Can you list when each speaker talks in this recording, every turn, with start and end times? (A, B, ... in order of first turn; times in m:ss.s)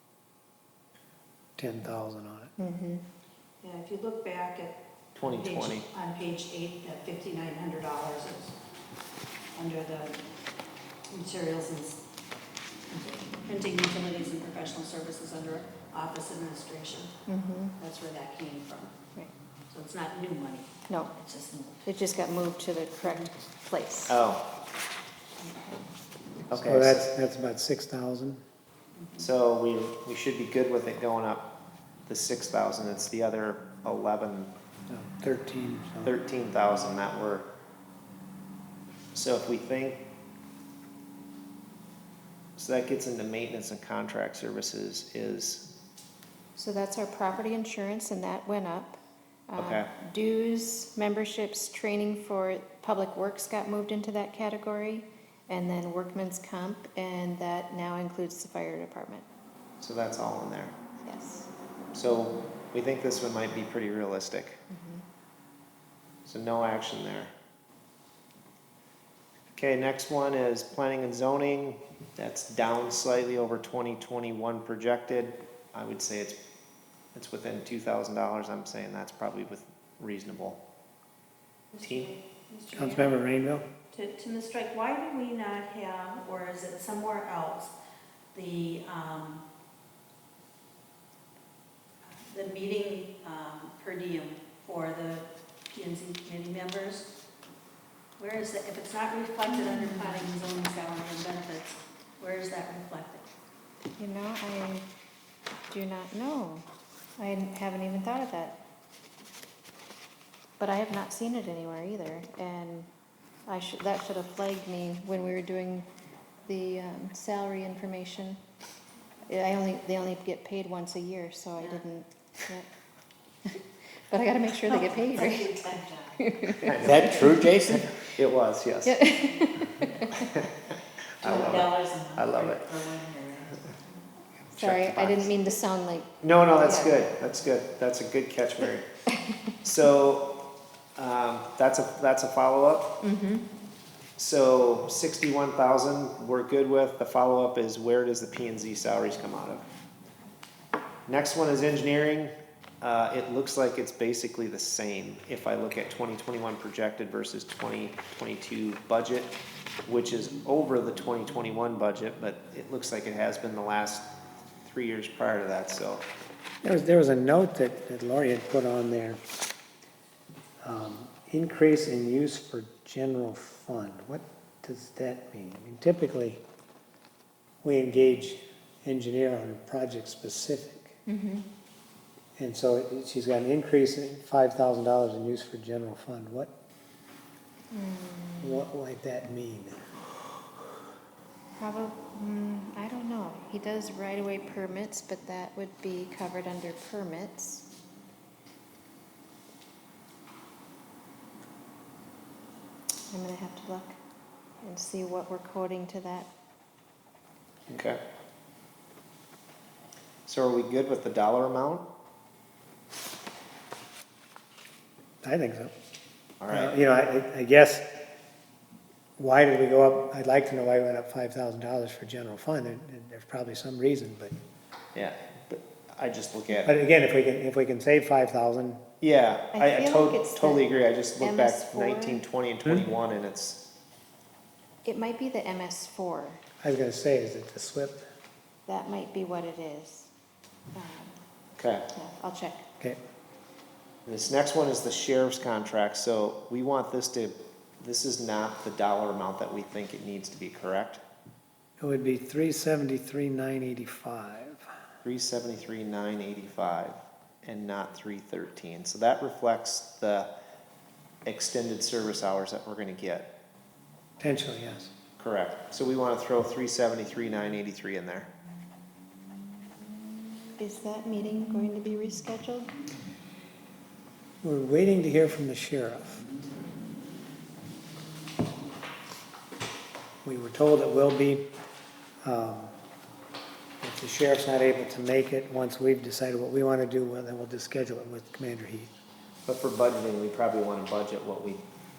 0:01.6-0:02.5 A
0:02.6-0:03.0 B
0:03.6-0:04.8 C
0:05.2-0:05.9 D
0:05.3-0:08.5 C
0:09.5-0:10.2 C
0:11.1-0:12.0 C
0:12.9-0:17.1 C
0:17.3-0:17.7 B
0:17.8-0:18.9 C
0:19.7-0:21.9 C
0:20.9-0:21.1 B
0:21.8-0:24.2 B
0:23.0-0:23.3 C
0:24.1-0:24.4 D
0:26.5-0:27.1 D
0:26.5-0:28.4 A
0:29.0-0:29.3 C
0:29.2-0:31.5 D
0:32.1-0:34.5 D
0:34.9-0:36.2 A
0:36.0-0:37.5 D
0:39.1-0:40.0 D
0:42.6-0:45.7 D
0:46.6-0:59.3 B
0:49.6-0:49.9 D
0:59.8-1:00.7 D
1:01.0-1:01.5 B
1:01.9-1:04.6 D
1:04.7-1:05.0 B
1:06.2-1:07.3 D
1:09.6-1:16.4 D
1:17.1-1:20.6 D
1:21.8-1:22.1 D
1:22.5-1:23.1 C
1:22.7-1:23.7 A
1:23.9-1:27.7 C
1:28.3-1:29.4 C
1:32.3-1:37.1 C
1:38.2-1:43.3 C
1:39.5-1:40.2 B
1:44.0-1:44.9 B
1:45.7-1:46.7 B
1:47.2-1:48.6 B
1:50.6-1:52.9 B
1:53.5-1:55.9 B
1:56.5-1:58.4 B
1:59.3-2:02.7 B
2:03.4-2:06.9 B
2:04.7-2:06.2 C
2:06.6-2:09.0 D
2:07.0-2:07.6 A
2:08.8-2:10.3 B
2:10.2-2:10.6 D
2:11.2-2:12.9 D
2:11.7-2:12.2 C
2:14.5-2:17.0 B
2:14.6-2:15.3 D
2:16.2-2:18.9 D
2:19.6-2:20.4 D
2:21.0-2:22.9 D
2:23.0-2:23.5 B
2:24.2-2:29.6 D
2:31.1-2:39.3 D
2:39.9-2:44.1 D
2:44.6-2:46.0 D
2:46.6-2:49.2 A
2:50.6-2:56.4 A
2:57.6-3:01.0 A
3:01.1-3:01.5 B
3:02.4-3:06.5 A
3:07.7-3:08.7 B
3:08.4-3:09.8 A
3:11.6-3:17.7 B
3:23.1-3:24.0 B
3:24.6-3:26.3 B
3:27.7-3:28.0 D
3:30.3-3:31.9 D
3:35.2-3:35.7 A
3:36.4-3:36.7 D
3:36.5-3:37.9 A
3:39.2-3:44.4 A
3:45.0-3:46.7 D
3:46.6-3:48.8 A
3:49.0-3:53.6 D
3:49.5-3:52.2 B
3:54.8-3:56.4 B
3:56.6-3:58.1 A
3:58.7-4:00.1 B
4:00.8-4:01.2 B
4:01.6-4:01.9 D
4:01.9-4:02.7 B
4:04.1-4:11.0 D
4:11.8-4:14.7 A
4:15.0-4:20.3 D
4:21.3-4:23.3 D
4:24.2-4:24.9 A
4:25.2-4:28.3 D
4:30.6-4:32.7 B
4:34.4-4:36.3 A
4:40.2-4:41.4 A
4:42.2-4:42.7 A
4:43.8-4:48.9 A
4:49.5-4:51.6 D